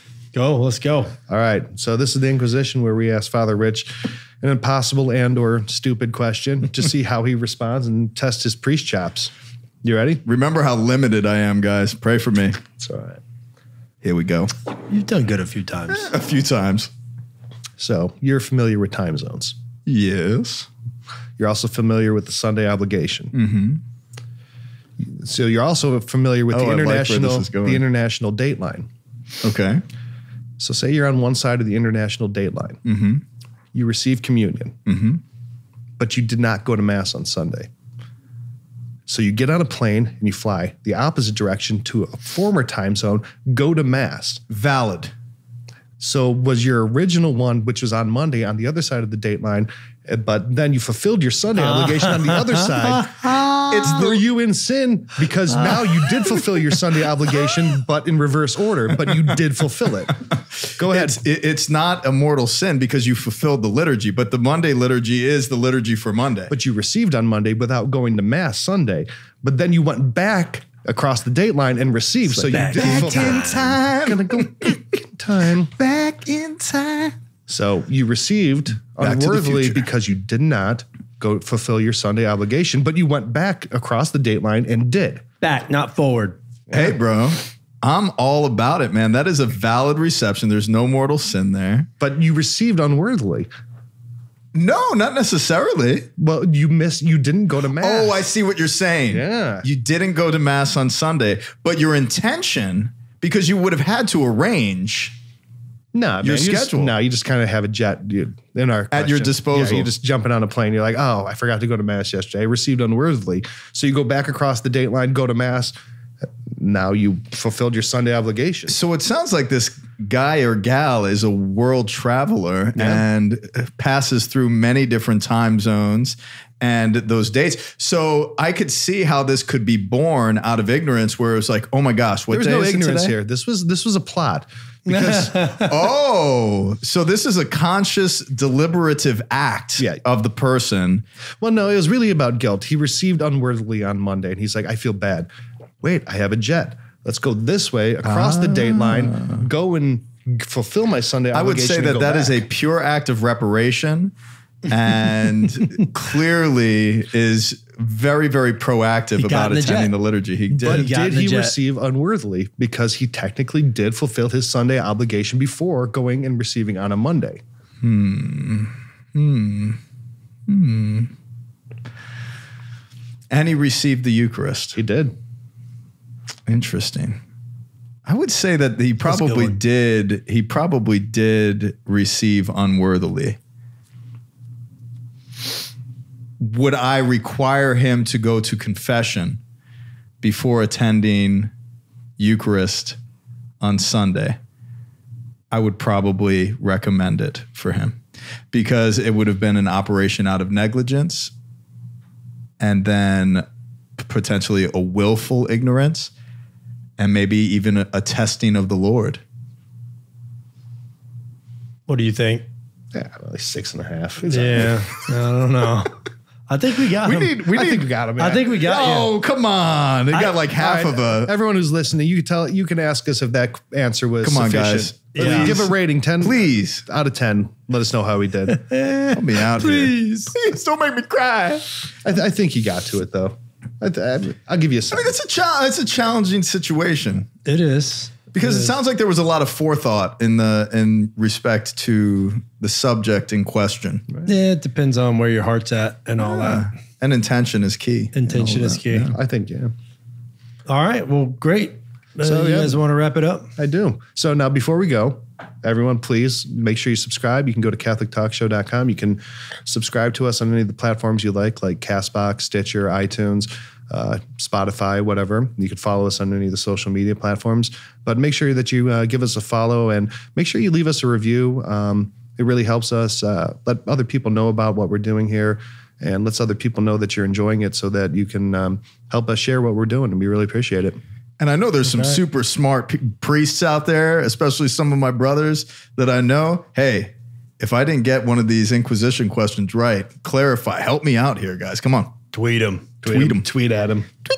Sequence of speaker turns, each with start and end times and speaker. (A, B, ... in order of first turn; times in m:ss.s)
0:00.3-0:01.1 A
0:01.3-0:09.3 B
0:09.8-0:10.2 B
0:10.2-0:12.6 C
0:12.8-0:13.2 B
0:14.0-0:14.5 C
0:14.8-0:16.1 A
0:15.9-0:16.9 C
0:17.8-0:19.5 B
0:19.8-0:20.7 C
0:21.4-0:23.3 B
0:23.3-0:23.8 C
0:25.0-0:28.9 B
0:26.5-0:27.8 C
0:29.4-0:29.8 C
0:30.6-0:32.8 B
0:32.8-0:33.2 C
0:33.7-0:34.8 B
0:34.8-0:35.2 C
0:36.0-0:37.7 B
0:39.1-0:44.4 B
0:44.5-0:45.1 C
0:46.0-1:00.2 B
0:51.6-0:53.5 A
0:53.7-0:54.2 C
0:55.6-0:56.4 A
1:00.3-1:06.5 C
1:00.7-1:01.2 B
1:06.5-1:15.7 B
1:12.3-1:13.7 A
1:12.7-1:14.8 C
1:15.7-1:17.2 C
1:17.5-1:25.2 B
1:19.0-1:19.8 C
1:25.4-1:26.4 A
1:26.7-1:27.0 B
1:26.7-1:31.9 C
1:32.0-1:33.5 B
1:34.5-1:36.1 C
1:36.2-1:38.2 B
1:37.8-1:45.2 C
1:39.1-1:39.7 B
1:45.9-1:55.7 B
1:46.2-1:46.9 C
1:48.9-1:49.9 C
1:56.6-1:58.8 B
1:58.7-2:13.1 C
2:02.7-2:03.0 B
2:12.3-2:15.6 B
2:15.3-2:15.7 A
2:15.4-2:21.0 C
2:19.8-2:20.0 B
2:21.4-2:25.3 B
2:25.8-2:32.4 B
2:28.0-2:29.4 C
2:31.3-2:34.1 C
2:34.6-2:40.9 C
2:39.2-2:39.9 A
2:40.5-2:47.4 B
2:40.6-2:41.5 A
2:47.8-2:49.8 C
2:50.4-2:51.1 C
2:53.3-2:54.8 C
2:54.8-2:55.1 B
2:56.4-2:57.2 C
2:58.0-3:03.4 C
2:59.0-2:59.6 A
3:06.4-3:09.4 C
3:10.2-3:11.5 C
3:12.2-3:13.0 C
3:13.6-3:14.4 C
3:15.5-3:18.0 C
3:18.5-3:21.3 C
3:22.6-3:23.4 C
3:24.0-3:26.1 C
3:27.0-3:29.2 C
3:31.9-3:32.4 A
3:32.9-3:34.8 B
3:34.3-3:36.0 A
3:36.5-3:37.4 A
3:37.0-3:37.9 C
3:37.5-3:38.7 B
3:38.2-3:39.1 A
3:38.5-3:41.3 C
3:40.4-3:48.6 B
3:44.2-3:46.8 C
3:45.1-3:45.6 A
3:48.5-3:50.3 A
3:49.1-3:51.7 C
3:52.0-3:55.2 B
3:54.9-3:57.3 C
3:57.4-3:58.7 A
3:58.3-4:04.0 C
4:04.2-4:06.7 A
4:06.2-4:09.2 C
4:08.1-4:09.1 A
4:09.1-4:09.7 B
4:10.7-4:13.5 A
4:12.2-4:12.8 B
4:13.6-4:41.0 B
4:41.4-4:52.2 C
4:52.3-4:52.9 A
4:53.0-4:54.1 B
4:53.0-4:53.4 C